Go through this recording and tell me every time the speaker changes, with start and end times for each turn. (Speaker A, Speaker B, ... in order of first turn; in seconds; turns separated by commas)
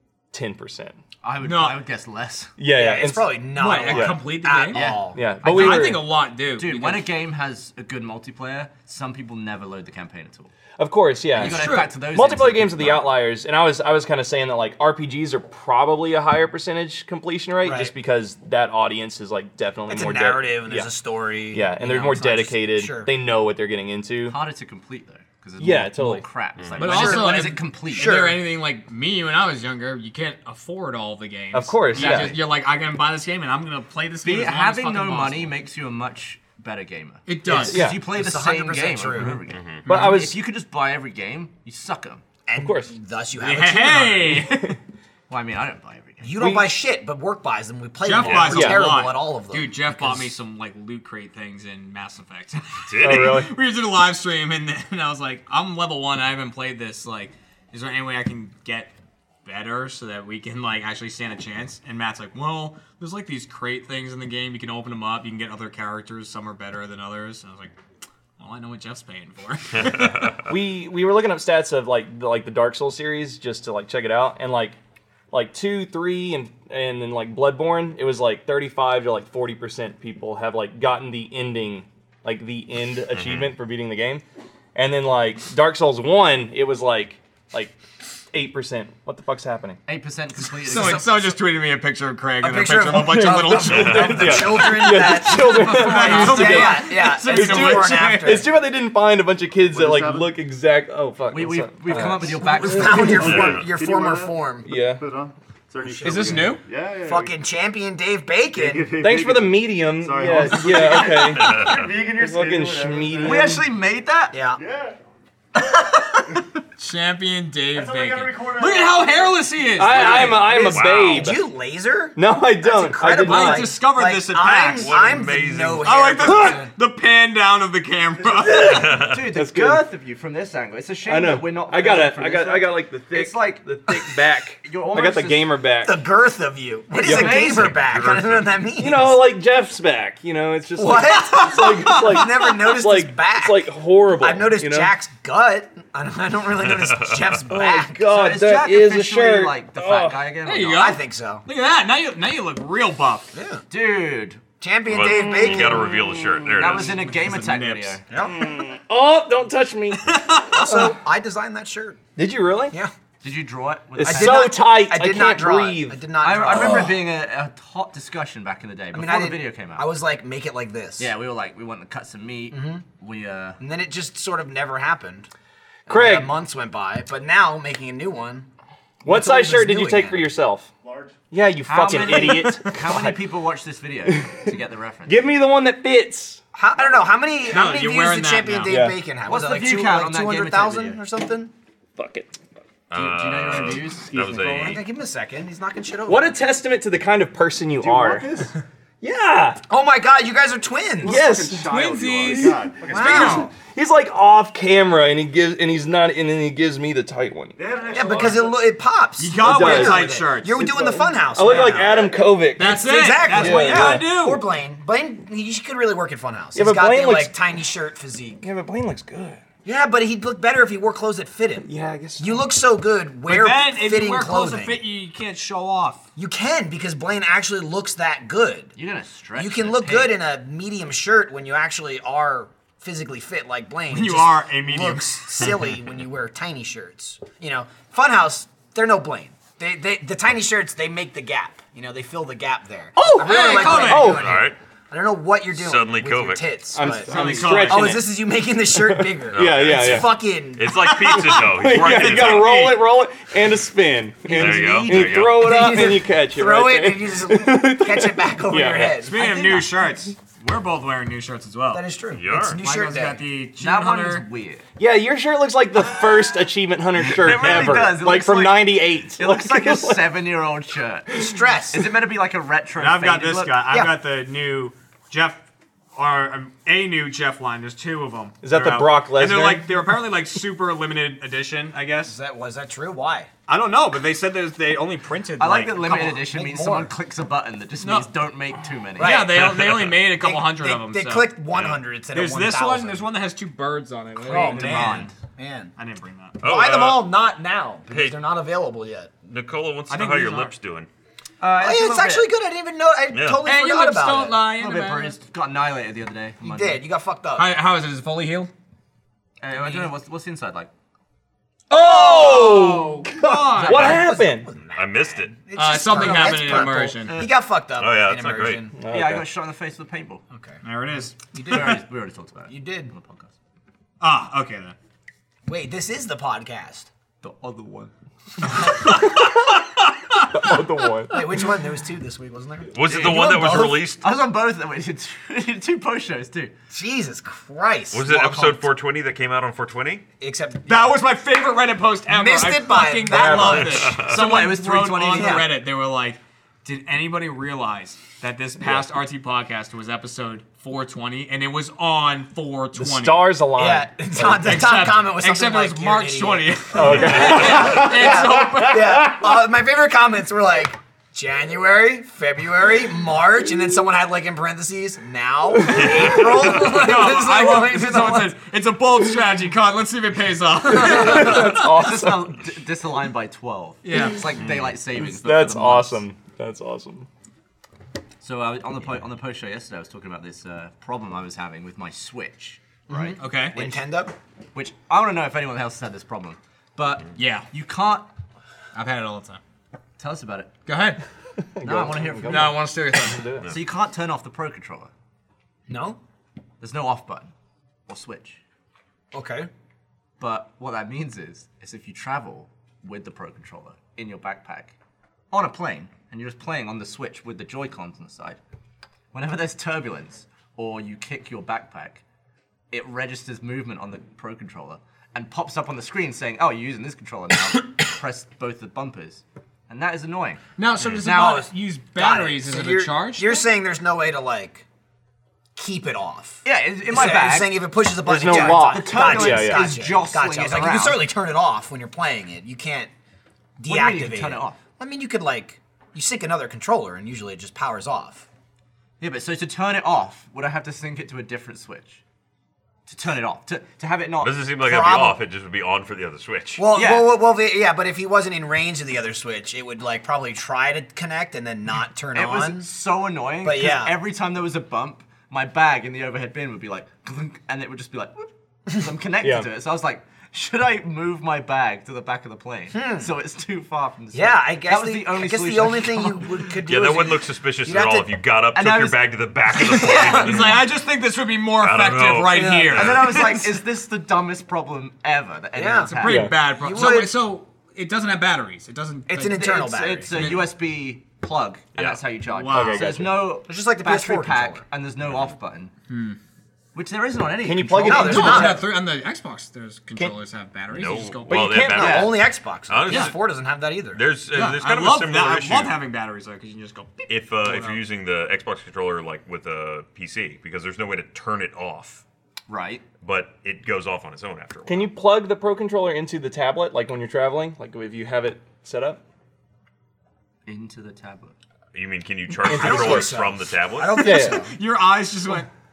Speaker A: 0.3-1.0, Speaker B: 1.2-2.5, Speaker C: 1.4-1.8, Speaker A: 2.6-4.2, Speaker D: 2.7-5.6, Speaker C: 3.5-7.1, Speaker B: 4.7-5.8, Speaker A: 5.1-6.1, Speaker B: 6.5-10.5, Speaker A: 10.8-20.9, Speaker B: 11.4-13.1, Speaker C: 11.4-11.9, Speaker D: 17.6-17.9, Speaker D: 19.9-23.1, Speaker A: 21.5-24.4, Speaker B: 24.3-28.3, Speaker A: 25.6-26.2, Speaker E: 26.6-27.0, Speaker C: 26.8-35.5, Speaker D: 26.8-28.5, Speaker A: 31.5-32.4, Speaker B: 31.9-32.4, Speaker B: 34.2-42.2, Speaker C: 37.3-37.8, Speaker D: 37.5-39.4, Speaker A: 37.5-38.0, Speaker E: 39.5-39.8, Speaker A: 39.9-40.4, Speaker D: 42.5-44.3, Speaker A: 42.6-42.9, Speaker C: 43.4-44.8, Speaker A: 44.2-44.8, Speaker B: 45.3-46.3, Speaker D: 46.2-50.3, Speaker A: 46.4-46.7, Speaker C: 48.0-58.9, Speaker E: 48.2-48.5, Speaker A: 48.5-48.9, Speaker E: 52.9-53.4, Speaker A: 53.0-53.5, Speaker C: 59.5-67.8, Speaker C: 68.4-70.4, Speaker E: 69.8-70.5, Speaker A: 70.4-74.8, Speaker A: 75.3-84.2, Speaker E: 83.1-83.5, Speaker A: 84.8-87.8, Speaker A: 88.3-89.8, Speaker B: 89.9-91.4, Speaker C: 90.6-98.4, Speaker D: 92.4-98.5, Speaker A: 93.1-103.1, Speaker E: 93.7-94.6, Speaker F: 99.7-100.4, Speaker B: 101.3-103.3, Speaker D: 102.4-104.7, Speaker F: 102.8-107.4, Speaker E: 103.2-103.7, Speaker A: 104.7-105.0, Speaker D: 105.8-106.5, Speaker C: 106.0-106.6, Speaker D: 107.0-108.9, Speaker F: 108.5-113.6, Speaker A: 109.0-113.7, Speaker E: 111.2-111.9, Speaker B: 113.2-114.3, Speaker D: 114.3-114.6, Speaker F: 114.6-115.0, Speaker C: 116.8-120.7, Speaker F: 117.7-120.3, Speaker A: 119.8-121.4, Speaker E: 120.5-121.3, Speaker D: 120.5-126.7, Speaker A: 122.2-123.8, Speaker C: 123.1-125.2, Speaker E: 124.8-125.9, Speaker C: 125.8-128.9, Speaker A: 126.3-126.6, Speaker B: 128.4-133.9, Speaker A: 128.5-129.8, Speaker E: 128.6-129.2, Speaker A: 131.1-136.1, Speaker B: 134.6-135.6, Speaker D: 135.8-139.2, Speaker B: 136.9-137.8, Speaker A: 137.0-137.4, Speaker E: 137.5-138.7, Speaker A: 138.8-144.9, Speaker D: 140.8-148.1, Speaker E: 146.6-147.4, Speaker A: 147.5-150.2, Speaker B: 148.1-151.0, Speaker C: 150.4-153.3, Speaker D: 150.8-151.4, Speaker D: 153.3-153.6, Speaker B: 153.7-154.4, Speaker D: 154.6-156.0, Speaker E: 154.9-157.0, Speaker A: 155.1-156.6, Speaker B: 156.6-158.0, Speaker C: 156.9-158.0, Speaker D: 158.1-158.5, Speaker A: 158.2-160.9, Speaker C: 160.0-160.9, Speaker D: 160.5-162.0, Speaker A: 162.2-162.8, Speaker B: 163.2-164.5, Speaker A: 164.0-166.9, Speaker D: 164.0-167.0, Speaker B: 166.2-169.9, Speaker D: 168.9-171.1, Speaker B: 171.0-173.6, Speaker D: 172.5-172.8, Speaker D: 173.6-175.3, Speaker A: 175.9-176.3, Speaker D: 175.9-178.5, Speaker A: 179.0-180.7, Speaker D: 179.1-180.3, Speaker F: 180.8-181.2, Speaker A: 181.3-183.2, Speaker B: 181.7-185.2, Speaker C: 182.0-182.7, Speaker A: 184.1-184.5, Speaker A: 185.1-186.4, Speaker D: 186.5-191.5, Speaker C: 187.5-188.8, Speaker A: 188.7-189.0, Speaker B: 189.3-191.0, Speaker A: 192.0-192.3, Speaker E: 192.9-194.8, Speaker B: 192.9-194.8, Speaker D: 194.6-196.4, Speaker A: 196.1-198.5, Speaker F: 197.8-198.5, Speaker A: 199.0-199.6, Speaker D: 199.7-201.2, Speaker F: 201.0-203.5, Speaker A: 201.0-207.6, Speaker C: 201.5-203.5, Speaker D: 202.9-203.5, Speaker F: 207.6-208.7, Speaker D: 207.9-212.1, Speaker C: 209.2-210.9, Speaker A: 209.4-214.1, Speaker C: 212.6-214.4, Speaker D: 212.7-218.4, Speaker A: 216.6-217.3, Speaker A: 218.4-219.4, Speaker D: 219.7-224.8, Speaker A: 221.6-222.5, Speaker C: 223.3-226.1, Speaker D: 226.2-228.7, Speaker B: 228.8-230.2, Speaker D: 229.4-251.4, Speaker C: 233.9-235.2, Speaker C: 243.0-244.2, Speaker A: 243.0-244.4, Speaker E: 244.1-244.6, Speaker E: 245.5-246.5, Speaker A: 246.7-248.1, Speaker C: 246.9-248.0, Speaker A: 248.7-250.1, Speaker E: 249.3-252.8, Speaker A: 251.0-259.0, Speaker C: 251.8-252.8, Speaker E: 254.3-255.5, Speaker D: 254.3-259.7, Speaker C: 259.0-261.9, Speaker D: 261.7-263.2, Speaker E: 262.1-262.6, Speaker C: 262.6-264.3, Speaker B: 263.6-264.6, Speaker A: 264.8-270.1, Speaker B: 267.0-273.6, Speaker A: 271.1-271.4, Speaker D: 271.1-271.9, Speaker C: 272.8-275.4, Speaker D: 273.7-274.0, Speaker C: 275.9-282.2, Speaker A: 278.4-279.8, Speaker D: 282.0-283.3, Speaker C: 283.5-286.1, Speaker B: 285.4-289.3, Speaker D: 285.8-286.9, Speaker C: 287.8-288.1, Speaker C: 289.0-291.4, Speaker D: 289.0-293.2, Speaker E: 289.4-290.0, Speaker E: 291.5-291.8, Speaker C: 292.1-295.1, Speaker D: 294.2-295.7, Speaker B: 294.2-295.1, Speaker C: 295.8-296.4, Speaker E: 296.4-297.2, Speaker D: 296.4-299.1, Speaker E: 297.9-298.2, Speaker E: 299.3-300.9, Speaker C: 299.9-300.6, Speaker B: 301.4-302.3, Speaker D: 301.6-304.4, Speaker E: 303.1-303.4, Speaker C: 303.4-305.2, Speaker B: 304.6-306.8, Speaker D: 306.4-307.6, Speaker C: 307.4-308.5, Speaker B: 309.4-310.7, Speaker C: 311.7-314.0, Speaker A: 311.7-314.5, Speaker D: 313.6-318.8, Speaker B: 313.6-314.0, Speaker E: 314.8-315.4, Speaker C: 315.5-317.2, Speaker B: 316.0-316.5, Speaker E: 317.8-318.6, Speaker A: 318.7-319.3, Speaker B: 318.9-320.2, Speaker C: 320.6-321.2, Speaker D: 321.3-321.8, Speaker B: 321.4-323.3, Speaker D: 322.5-322.9, Speaker C: 324.0-324.8, Speaker D: 325.4-326.9, Speaker C: 327.4-327.7, Speaker C: 328.4-330.6, Speaker A: 330.3-331.2, Speaker D: 331.1-333.9, Speaker E: 332.7-334.1, Speaker B: 332.9-336.5, Speaker D: 336.7-338.6, Speaker E: 337.9-340.0, Speaker D: 340.2-341.1, Speaker C: 340.7-353.4, Speaker D: 342.1-344.1, Speaker A: 343.1-343.7, Speaker E: 343.6-344.2, Speaker B: 344.0-345.5, Speaker D: 345.1-345.5, Speaker A: 352.8-354.6, Speaker D: 353.5-368.4, Speaker C: 354.3-359.1, Speaker A: 356.7-359.4, Speaker E: 356.9-357.4, Speaker A: 365.5-366.1, Speaker E: 365.7-366.8, Speaker C: 366.2-371.7, Speaker A: 370.7-372.4, Speaker B: 370.9-376.1, Speaker C: 373.8-374.3, Speaker E: 374.4-374.8, Speaker A: 374.9-377.1, Speaker B: 378.2-383.9, Speaker D: 382.9-384.1, Speaker C: 383.2-383.6, Speaker B: 384.6-388.1, Speaker C: 387.2-387.5, Speaker C: 388.7-389.4, Speaker B: 390.0-390.5, Speaker C: 390.7-391.0, Speaker A: 391.4-393.5, Speaker B: 391.6-392.6, Speaker C: 392.3-393.3, Speaker B: 393.5-394.9, Speaker D: 395.7-396.0, Speaker B: 396.6-397.3, Speaker B: 397.9-398.4, Speaker D: 399.1-399.5, Speaker B: 400.2-404.8, Speaker B: 405.3-408.4, Speaker B: 409.1-412.0, Speaker B: 412.7-420.4, Speaker C: 420.6-423.4, Speaker B: 421.0-421.5, Speaker D: 421.9-424.6, Speaker D: 425.6-432.9, Speaker B: 426.4-427.6, Speaker A: 428.1-429.7, Speaker B: 428.2-431.1, Speaker D: 433.6-438.3, Speaker B: 433.6-434.6, Speaker B: 439.0-442.0, Speaker B: 442.9-444.4, Speaker E: 444.2-446.6, Speaker D: 444.6-445.2, Speaker D: 446.6-452.7, Speaker B: 446.7-447.1, Speaker B: 452.1-466.3, Speaker D: 453.4-453.9, Speaker A: 459.2-459.5, Speaker D: 462.7-463.1, Speaker D: 464.1-468.1, Speaker E: 466.7-470.7, Speaker B: 468.6-469.0, Speaker B: 469.6-470.3, Speaker C: 469.9-473.4, Speaker E: 471.6-473.3, Speaker B: 472.3-476.4, Speaker D: 472.7-473.3, Speaker D: 475.6-477.2, Speaker C: 475.9-480.5, Speaker A: 476.1-476.4, Speaker D: 479.1-480.1, Speaker B: 479.4-485.7, Speaker C: 482.3-483.0, Speaker A: 482.5-483.2, Speaker D: 483.4-484.6, Speaker E: 485.0-485.3, Speaker C: 485.9-486.2, Speaker B: 486.7-488.6, Speaker A: 487.4-488.6, Speaker D: 487.8-488.7, Speaker C: 487.9-491.9, Speaker E: 490.7-493.2, Speaker A: 491.3-492.2, Speaker D: 491.7-494.0, Speaker C: 492.9-493.1, Speaker E: 493.9-495.8, Speaker C: 494.3-497.8, Speaker E: 497.1-502.0, Speaker B: 502.5-502.8, Speaker E: 503.0-504.9, Speaker A: 504.7-509.0, Speaker B: 510.5-511.4, Speaker E: 511.7-514.0, Speaker A: 512.4-513.2, Speaker D: 512.4-514.5, Speaker C: 514.0-515.5, Speaker A: 514.0-514.4